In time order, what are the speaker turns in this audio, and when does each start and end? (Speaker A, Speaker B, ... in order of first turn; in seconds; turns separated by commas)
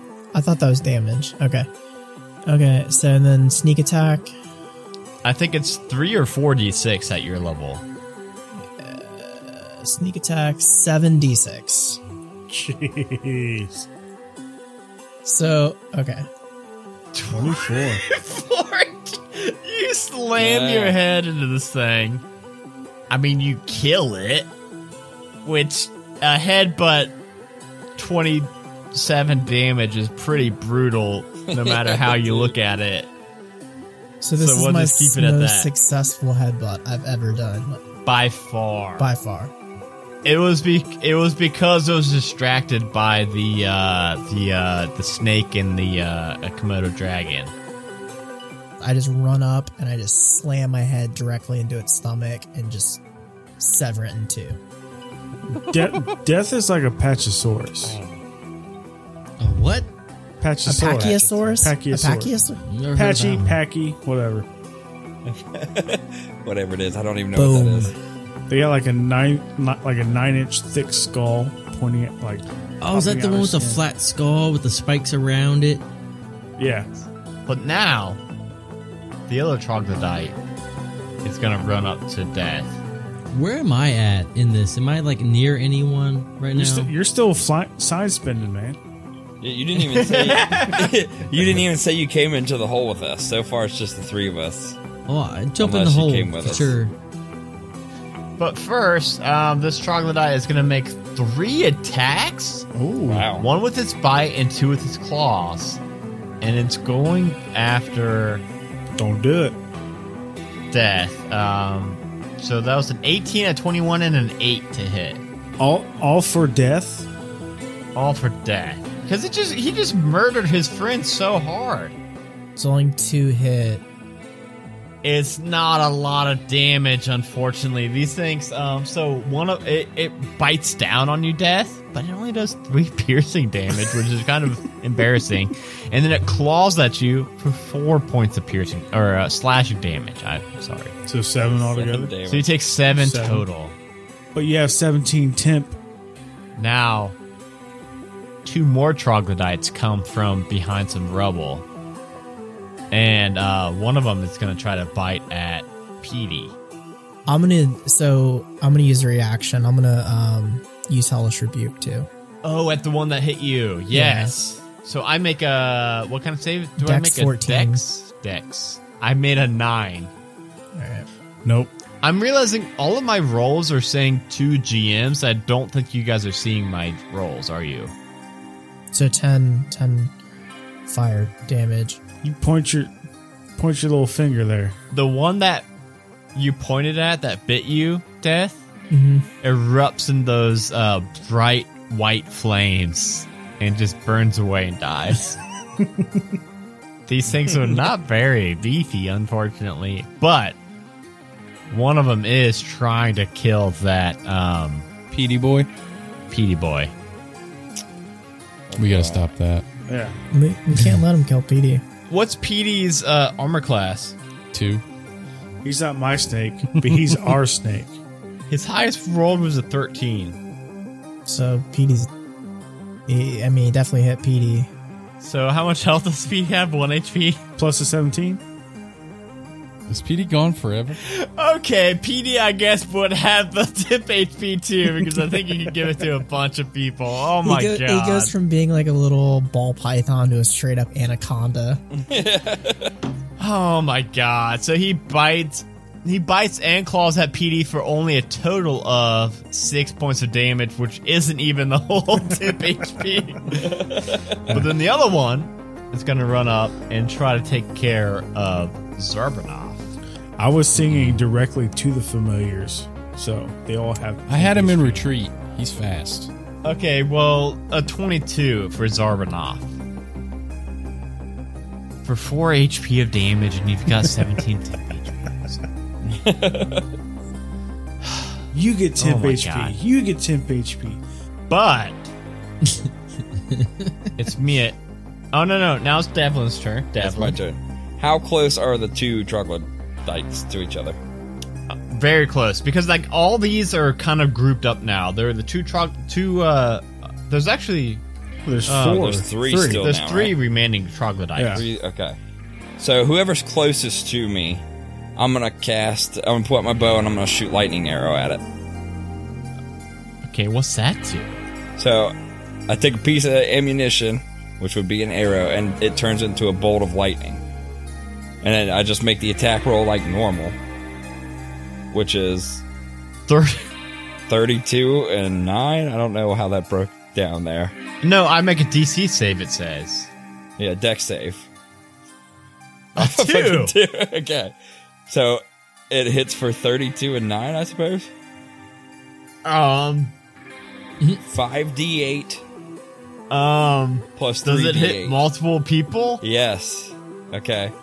Speaker A: 0.3-1.7, Speaker A: 2.5-4.3, Speaker B: 5.2-7.8, Speaker A: 8.6-12.0, Speaker C: 12.5-13.9, Speaker A: 15.2-16.2, Speaker B: 17.1-22.2, Speaker C: 17.3-18.0, Speaker D: 20.4-21.0, Speaker B: 23.1-24.5, Speaker B: 25.4-27.2, Speaker B: 28.0-33.1, Speaker D: 31.5-32.5, Speaker A: 34.2-37.8, Speaker B: 34.4-35.7, Speaker B: 38.0-39.1, Speaker A: 39.0-39.5, Speaker B: 40.2-47.5, Speaker A: 48.8-53.0, Speaker A: 53.6-54.6, Speaker C: 55.5-58.0, Speaker D: 57.9-58.2, Speaker E: 59.4-59.9, Speaker C: 60.4-62.3, Speaker A: 60.7-62.6, Speaker D: 60.9-61.5, Speaker E: 62.7-63.6, Speaker C: 62.9-64.5, Speaker D: 65.2-67.9, Speaker A: 67.3-68.0, Speaker C: 68.5-73.8, Speaker E: 72.8-75.8, Speaker C: 76.6-76.9, Speaker B: 77.5-78.2, Speaker B: 79.3-80.4, Speaker B: 81.2-82.8, Speaker E: 83.3-86.9, Speaker C: 86.5-88.8, Speaker D: 89.4-94.8, Speaker B: 89.8-90.8, Speaker E: 95.1-96.9, Speaker D: 95.6-96.7, Speaker B: 98.4-102.7, Speaker C: 102.7-103.3, Speaker D: 103.1-103.5, Speaker B: 103.3-105.8, Speaker B: 106.4-108.5, Speaker C: 109.0-109.6, Speaker B: 110.7-115.2, Speaker C: 115.6-117.1, Speaker B: 118.0-122.0, Speaker A: 122.6-123.8, Speaker B: 125.0-140.9, Speaker C: 141.1-142.1, Speaker D: 141.6-142.5, Speaker B: 142.3-143.8, Speaker C: 142.9-143.5, Speaker C: 144.3-145.8, Speaker B: 146.6-147.2, Speaker B: 148.4-151.7, Speaker B: 152.9-156.6, Speaker A: 157.3-162.1, Speaker B: 162.4-170.1, Speaker A: 163.9-164.4, Speaker A: 166.8-167.8, Speaker A: 170.8-171.1, Speaker C: 171.4-171.7, Speaker B: 172.0-177.9, Speaker A: 178.9-180.1, Speaker A: 180.9-182.0, Speaker C: 182.2-182.9, Speaker C: 183.6-184.8, Speaker B: 184.9-185.7, Speaker B: 186.3-188.7, Speaker A: 188.9-189.3, Speaker B: 189.4-195.4, Speaker B: 197.1-200.6, Speaker B: 201.7-204.9, Speaker F: 205.1-205.7, Speaker B: 206.3-206.9, Speaker D: 208.7-209.3, Speaker F: 208.8-209.7, Speaker C: 209.9-210.2, Speaker A: 210.3-211.8, Speaker B: 212.1-214.2, Speaker F: 214.5-214.8, Speaker C: 215.6-217.9, Speaker F: 216.9-217.2, Speaker B: 218.5-220.4, Speaker A: 221.3-222.1, Speaker A: 223.1-224.7, Speaker B: 225.2-227.4, Speaker C: 227.6-228.4, Speaker F: 229.9-231.0, Speaker B: 231.0-238.3, Speaker A: 237.4-241.8, Speaker D: 241.9-242.9, Speaker B: 243.4-253.8, Speaker D: 253.6-254.4, Speaker B: 254.5-259.9, Speaker C: 260.4-265.1, Speaker F: 260.9-261.2, Speaker F: 264.3-266.3, Speaker B: 266.6-269.7, Speaker B: 272.1-275.6, Speaker D: 276.1-276.9, Speaker B: 278.1-278.3, Speaker C: 278.5-281.0, Speaker B: 279.0-279.8, Speaker B: 281.5-282.1, Speaker B: 284.2-284.8, Speaker B: 285.3-287.4, Speaker D: 287.0-291.0, Speaker B: 291.7-298.0, Speaker C: 298.4-299.9, Speaker B: 298.7-299.2, Speaker D: 298.8-300.4, Speaker B: 299.8-301.6, Speaker C: 301.4-301.6, Speaker D: 301.5-302.2, Speaker D: 302.8-304.6, Speaker D: 305.2-308.4, Speaker B: 310.2-311.4, Speaker D: 311.8-312.1, Speaker D: 312.7-317.4, Speaker D: 318.4-320.6, Speaker D: 321.9-322.6, Speaker B: 323.3-323.7, Speaker D: 324.3-327.7, Speaker B: 328.0-330.1, Speaker D: 330.6-331.5, Speaker D: 332.9-334.5, Speaker B: 332.9-333.7, Speaker D: 335.1-338.1, Speaker B: 339.4-340.1, Speaker D: 341.3-342.4, Speaker B: 343.3-346.2, Speaker D: 344.2-345.2, Speaker D: 346.2-347.7